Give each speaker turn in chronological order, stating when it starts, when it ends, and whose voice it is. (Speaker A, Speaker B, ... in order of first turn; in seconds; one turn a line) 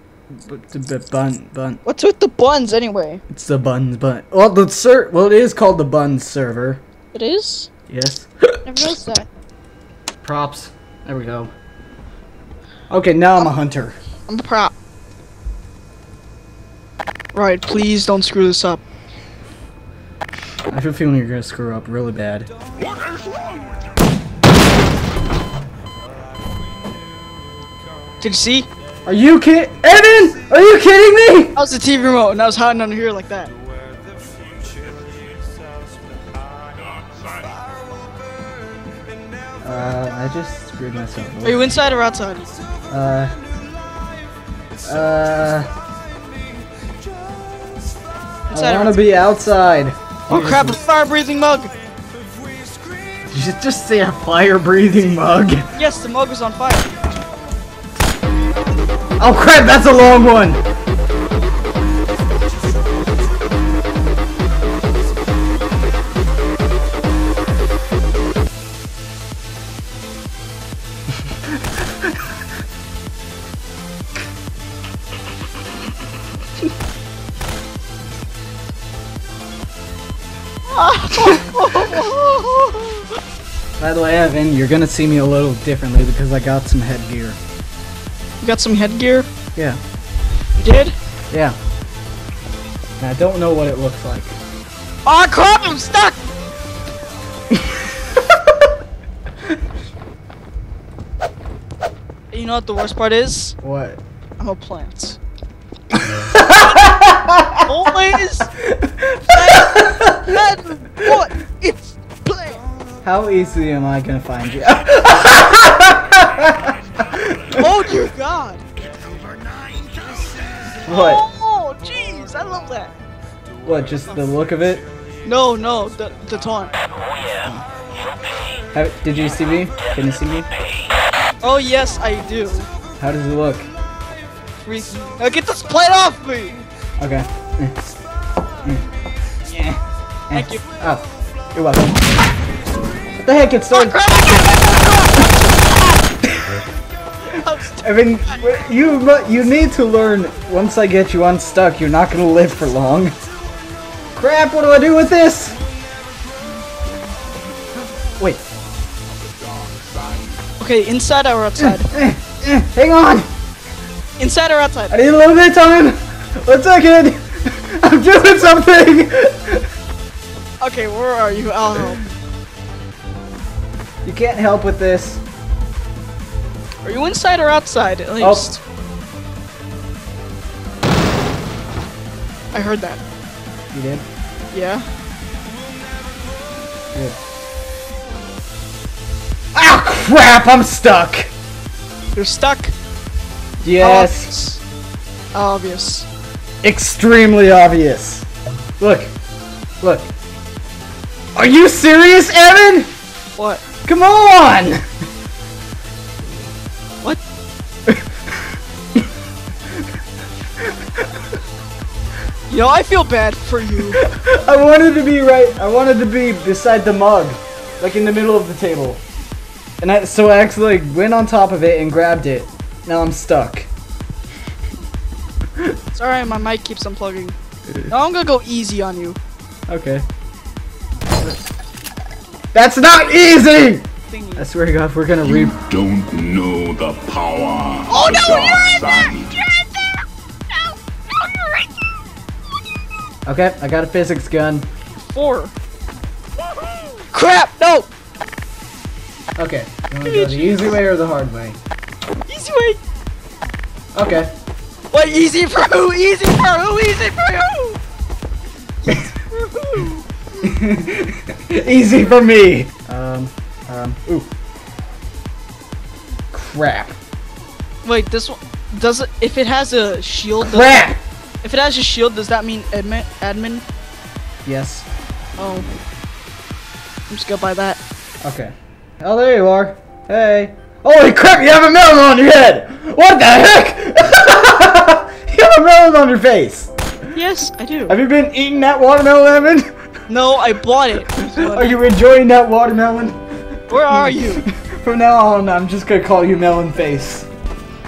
Speaker A: 0.3-1.8
Speaker B: 1.9-3.2
Speaker A: 3.3-6.8
Speaker B: 7.1-7.7
Speaker A: 7.9-8.9
Speaker B: 8.7-9.3
Speaker A: 10.2-11.5
Speaker A: 12.9-14.0
Speaker B: 14.3-14.7
Speaker B: 17.3-18.8
Speaker A: 20.7-22.5
Speaker C: 22.9-23.4
Speaker B: 28.2-28.7
Speaker A: 29.1-31.6
Speaker B: 31.6-33.5
Speaker A: 39.6-41.7
Speaker B: 41.4-42.5
Speaker A: 42.9-43.4
Speaker A: 44.9-45.7
Speaker B: 48.5-49.0
Speaker A: 48.5-50.8
Speaker B: 50.3-51.7
Speaker A: 53.2-55.7
Speaker B: 55.8-57.1
Speaker A: 59.2-60.6
Speaker B: 80.7-83.2
Speaker A: 83.8-87.4
Speaker B: 88.4-89.3
Speaker B: 90.6-90.9
Speaker A: 91.3-91.6
Speaker A: 93.0-94.4
Speaker B: 95.1-96.2
Speaker A: 97.5-98.4
Speaker B: 102.3-103.5
Speaker A: 103.6-104.0
Speaker B: 104.4-105.2
Speaker A: 105.9-107.9
Speaker B: 106.6-106.9
Speaker B: 107.7-108.5
Speaker A: 108.6-110.4
Speaker B: 109.3-112.6
Speaker A: 113.0-117.7
Speaker B: 117.5-118.6
Speaker A: 120.8-121.2
Speaker B: 120.9-122.9
Speaker A: 123.7-124.9
Speaker B: 125.2-126.7
Speaker A: 128.7-130.5
Speaker B: 131.4-132.7
Speaker A: 133.0-133.7
Speaker B: 134.6-136.6
Speaker A: 137.0-137.8
Speaker A: 139.5-142.2
Speaker B: 140.3-140.6
Speaker A: 143.2-144.4
Speaker B: 143.7-145.8
Speaker A: 146.2-146.6
Speaker B: 147.2-148.4
Speaker A: 147.8-153.2
Speaker A: 154.2-155.6
Speaker B: 160.6-161.9
Speaker A: 161.6-163.3
Speaker B: 164.2-165.0
Speaker A: 164.9-169.7
Speaker B: 170.6-172.0
Speaker A: 174.0-175.2
Speaker B: 176.8-178.6
Speaker A: 178.2-178.5
Speaker B: 182.5-183.0
Speaker A: 183.7-184.1
Speaker B: 184.5-184.8
Speaker A: 189.5-191.3
Speaker B: 192.2-192.7
Speaker A: 193.6-194.3
Speaker B: 193.8-194.6
Speaker B: 195.3-196.1
Speaker A: 196.6-198.3
Speaker A: 198.8-199.1
Speaker A: 199.8-200.1
Speaker A: 201.4-202.9
Speaker B: 203.4-203.6
Speaker A: 203.8-204.9
Speaker A: 210.6-211.1
Speaker B: 212.5-214.0
Speaker A: 213.9-219.0
Speaker A: 219.8-223.7
Speaker B: 225.9-229.2
Speaker A: 229.7-230.1
Speaker A: 232.5-235.6
Speaker B: 234.1-234.5
Speaker C: 235.5-239.4
Speaker B: 237.9-239.7
Speaker B: 241.2-241.7
Speaker A: 243.3-244.7
Speaker B: 245.0-245.5
Speaker B: 247.1-247.9
Speaker A: 249.4-251.6
Speaker B: 250.0-250.8
Speaker B: 252.3-252.8
Speaker A: 253.9-254.3
Speaker B: 254.9-257.8
Speaker B: 258.8-260.0
Speaker A: 260.4-264.3
Speaker A: 266.3-267.0
Speaker B: 267.8-270.9
Speaker A: 270.4-271.0
Speaker B: 271.4-273.6
Speaker A: 274.4-274.9
Speaker B: 275.4-275.7
Speaker B: 277.1-277.8
Speaker A: 278.2-286.7
Speaker B: 287.1-287.9
Speaker A: 287.9-289.6
Speaker B: 290.1-291.8
Speaker A: 291.2-297.3
Speaker B: 293.7-294.4